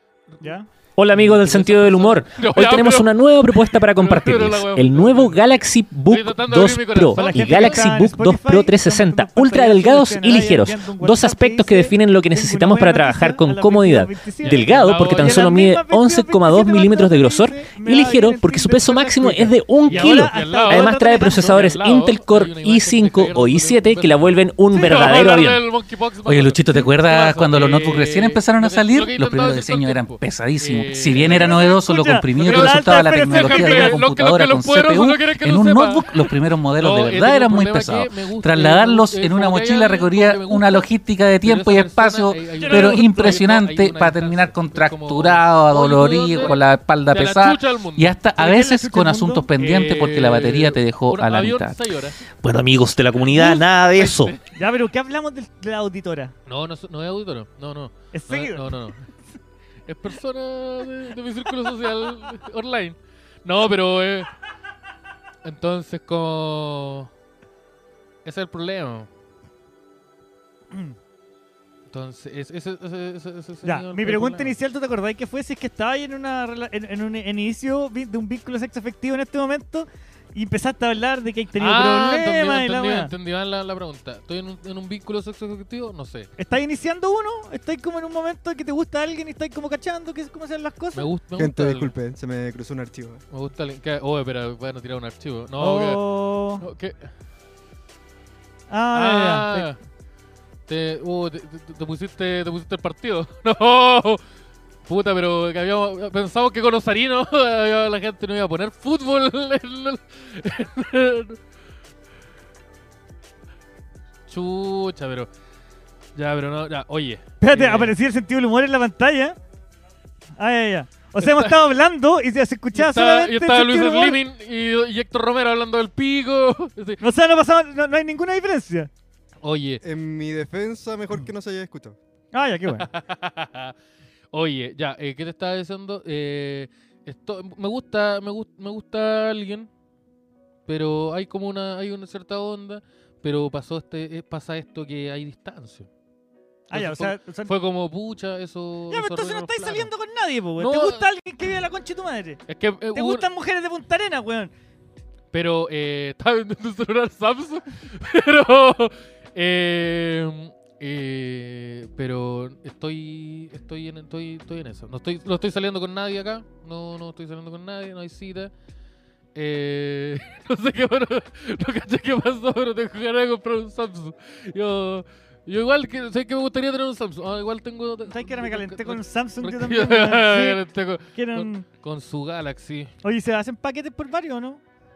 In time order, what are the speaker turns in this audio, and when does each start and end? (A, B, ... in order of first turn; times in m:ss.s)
0:00.3-0:00.5 A
0:00.4-0:00.7 B
0:01.0-0:25.6 C
0:01.1-0:08.0 A
0:07.1-0:21.8 B
0:14.4-0:15.6 A
0:19.8-0:31.8 A
0:26.2-0:51.8 D
0:31.2-0:34.0 B
0:32.4-0:40.9 A
0:41.4-0:48.2 A
0:42.6-0:43.4 B
0:48.4-0:49.5 B
0:49.6-0:52.2 A
0:52.4-0:54.3 C
0:53.3-0:53.7 B
0:53.4-0:54.5 A
0:54.5-0:56.3 B
0:56.5-0:59.0 A
0:58.1-0:58.9 B
0:59.8-1:04.3 A
1:05.4-1:07.1 A
1:08.2-1:09.1 A
1:11.9-1:14.5 A
1:13.6-1:23.1 B
1:21.6-1:26.3 A
1:26.4-1:31.1 B
1:30.9-1:31.9 A
1:31.4-1:33.2 E
1:33.3-1:36.0 A
1:35.6-1:36.6 B
1:36.6-1:37.1 A
1:38.7-1:39.7 B
1:38.9-1:39.8 A
1:40.7-1:44.2 A
1:44.8-1:51.4 A
1:54.3-1:55.3 A
1:56.1-1:57.9 A
1:57.4-1:59.4 B
2:00.4-2:04.2 B
2:01.2-2:01.6 A
2:02.7-2:07.0 A
2:07.0-2:08.9 B
2:09.4-2:09.8 A
2:09.8-2:12.0 E
2:12.3-2:12.9 B
2:12.7-2:13.7 A
2:14.3-2:19.7 A
2:20.6-2:25.9 A
2:26.7-2:27.5 B
2:26.7-2:29.9 A
2:28.9-2:34.5 B
2:30.6-2:31.1 A
2:32.5-2:33.2 A
2:35.3-2:48.5 A
2:49.3-3:02.9 A
2:58.1-3:01.6 B
3:03.0-3:04.6 B